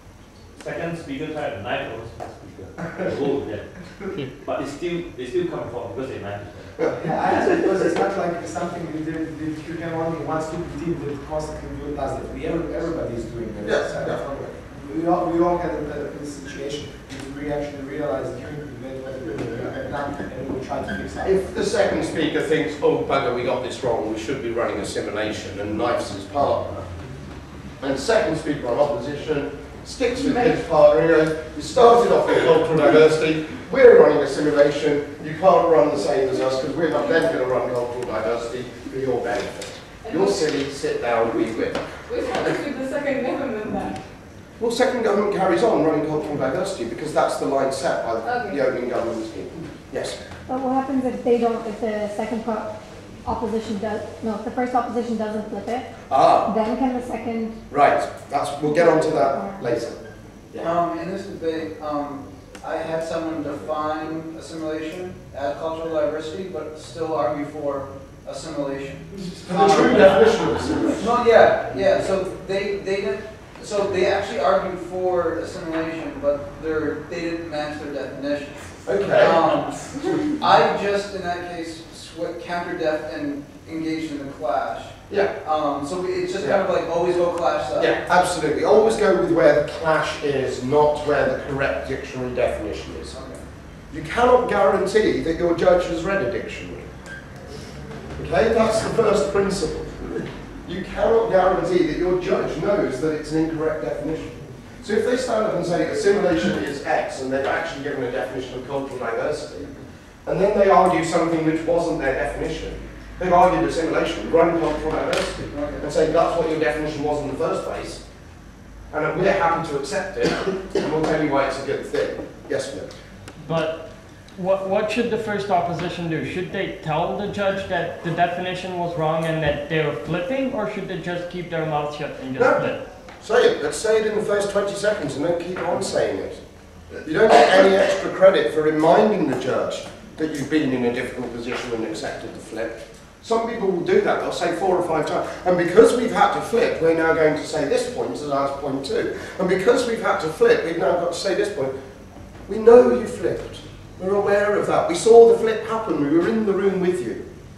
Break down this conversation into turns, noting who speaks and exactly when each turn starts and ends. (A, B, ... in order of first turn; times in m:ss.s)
0:00.5-0:06.8 A
0:07.0-0:21.5 B
0:13.6-0:14.4 C
0:21.2-0:26.8 C
0:27.8-0:41.9 C
0:40.0-0:40.5 D
0:42.1-0:44.0 D
0:44.6-0:50.2 C
0:48.2-0:48.6 D
0:50.5-0:52.7 E
0:53.2-0:55.9 E
0:56.1-0:56.5 C
0:56.4-0:57.6 E
0:57.7-1:00.0 C
1:00.6-1:28.0 F
1:09.4-1:11.0 C
1:18.8-1:19.4 C
1:25.1-1:25.3 C
1:27.8-1:33.2 C
1:33.1-1:33.4 F
1:33.9-1:36.8 C
1:38.2-1:40.1 C
1:40.6-1:49.7 C
1:50.2-1:58.0 C
1:55.5-1:55.9 F
1:58.9-2:02.9 C
2:03.4-2:12.8 G
2:12.4-2:16.4 C
2:17.0-2:31.7 C
2:32.5-2:37.2 C